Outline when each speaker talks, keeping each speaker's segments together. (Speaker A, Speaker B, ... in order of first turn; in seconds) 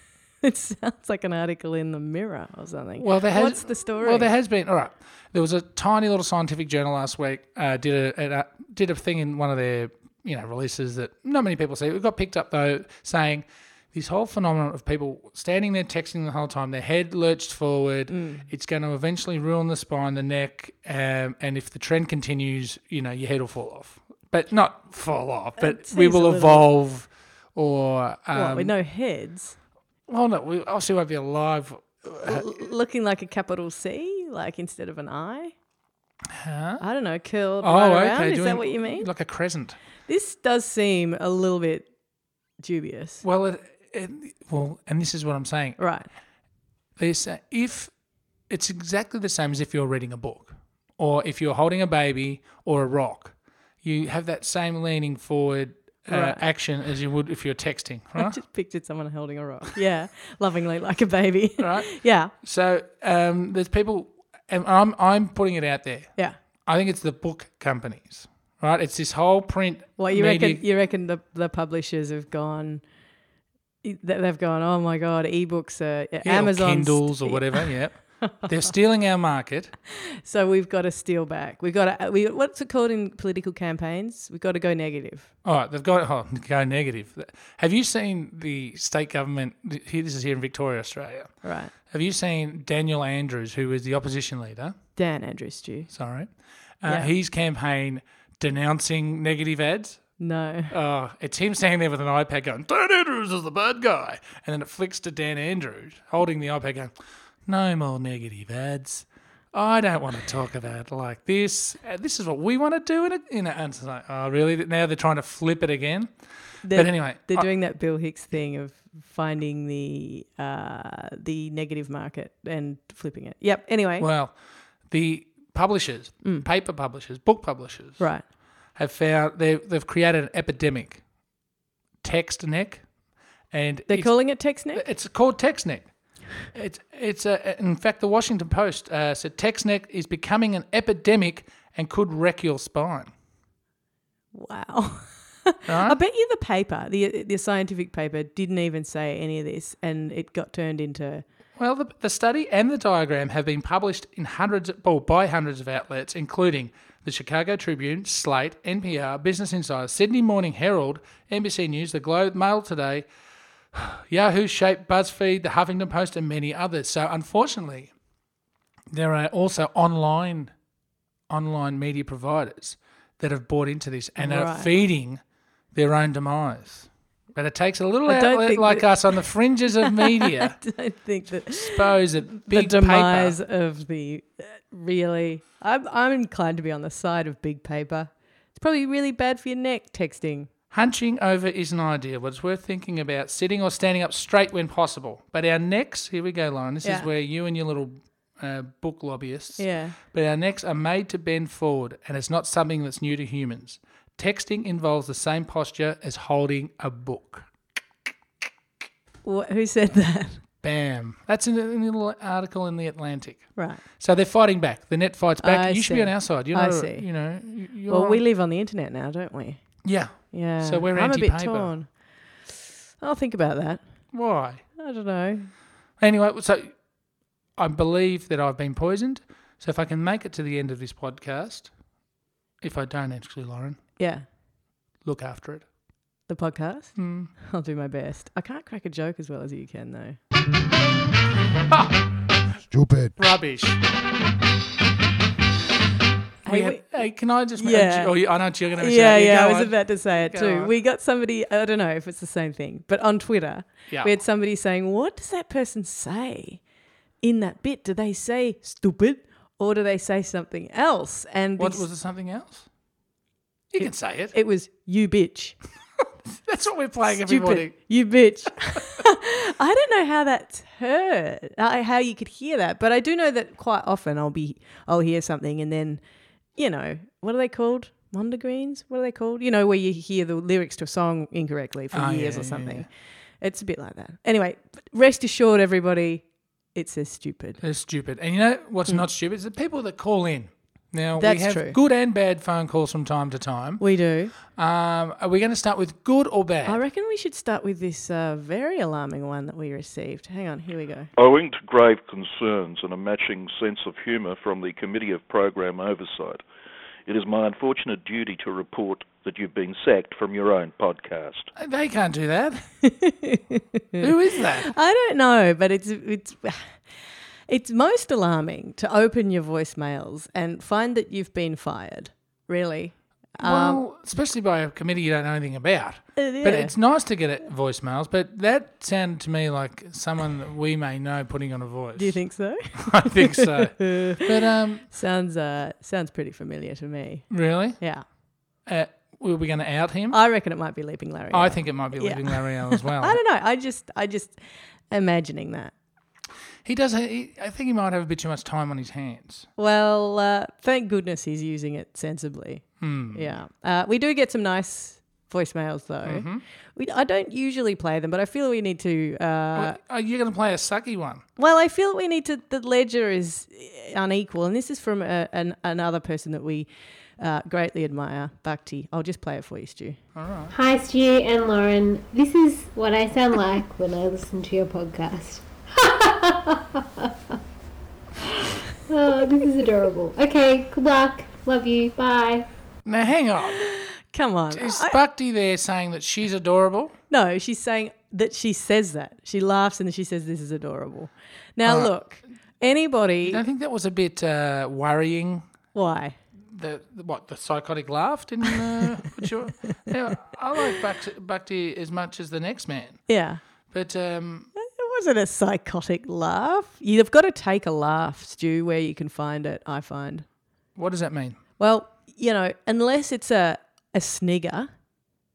Speaker A: 0.4-4.3, 18.1-18.4, 25.6-26.7, 28.3-29.6, 32.2-35.5, 36.8-39.1, 40.1-41.9, 42.6-43.2, 45.8-46.1, 56.1-56.4, 58.2-62.3, 70.0-72.8, 73.8-77.7, 80.2-85.3, 91.4-91.7, 95.0-95.9, 96.8-97.1, 100.2-100.7, 116.6-124.1, 133.9-134.8, 144.3-151.2, 174.2-174.7, 178.1-179.0, 179.8-190.5, 196.8-197.1, 199.6-200.0, 209.2-210.4, 213.6-213.8, 215.4-217.1, 217.9-219.6, 220.3-221.9, 223.0-223.8, 224.8-225.5, 234.0-234.2, 236.3-240.2, 246.4-246.9, 247.6-248.2, 248.7-256.6, 257.2-261.9, 263.8-265.6, 267.0-276.0, 276.6-282.9, 283.4-287.6, 291.2-291.8, 293.8-294.3, 296.6-301.1, 312.8-316.8, 317.5-323.8, 326.2-326.7, 331.9-334.2, 334.9-338.0, 340.1-344.4, 344.9-345.7, 349.6-359.8, 361.4-366.7, 367.2-370.0, 383.6-385.0, 387.1-393.4, 395.7-396.1, 398.5-399.2, 403.1-403.4, 404.6-410.2, 411.6-414.7
Speaker B: 3.0-28.7, 30.1-32.5, 36.4-36.8, 37.6-39.8, 43.2-45.8, 47.0-47.9, 48.5-58.4, 61.6-61.9, 62.4-66.1, 66.6-70.6, 76.2-79.7, 85.4-91.3, 91.9-94.7, 95.9-96.3, 96.8-100.0, 100.7-106.9, 107.5-116.1, 116.7-117.5, 124.0-124.3, 124.9-128.1, 128.8-131.0, 132.0-132.8, 133.5-135.9, 136.4-143.1, 145.7-146.0, 151.6-163.1, 163.7-167.9, 168.9-170.5, 171.3-175.2, 175.7-180.5, 181.4-183.4, 190.7-207.5, 210.6-218.2, 219.8-221.7, 224.1-224.6, 226.0-226.7, 227.6-231.7, 232.6-233.8, 235.0-235.7, 237.0-237.3, 241.7-242.0, 243.0-243.8, 246.4-250.7, 261.6-262.6, 263.7-264.3, 266.3-267.7, 281.9-282.9, 287.6-293.8, 294.5-296.8, 311.6-312.7, 314.0-314.7, 323.4-332.2, 332.8-334.9, 337.3-337.8, 338.6-340.2, 341.3-343.2, 346.6-349.5, 352.8-353.3, 356.0-356.4, 359.6-361.2, 370.1-370.6, 382.8-383.7, 384.5-386.9, 391.6-391.9, 393.2-395.5, 396.5-403.0, 403.7-404.5, 410.8-411.4
Speaker C: 301.2-306.4, 307.1-311.5
Speaker D: 370.5-377.1, 378.2-382.5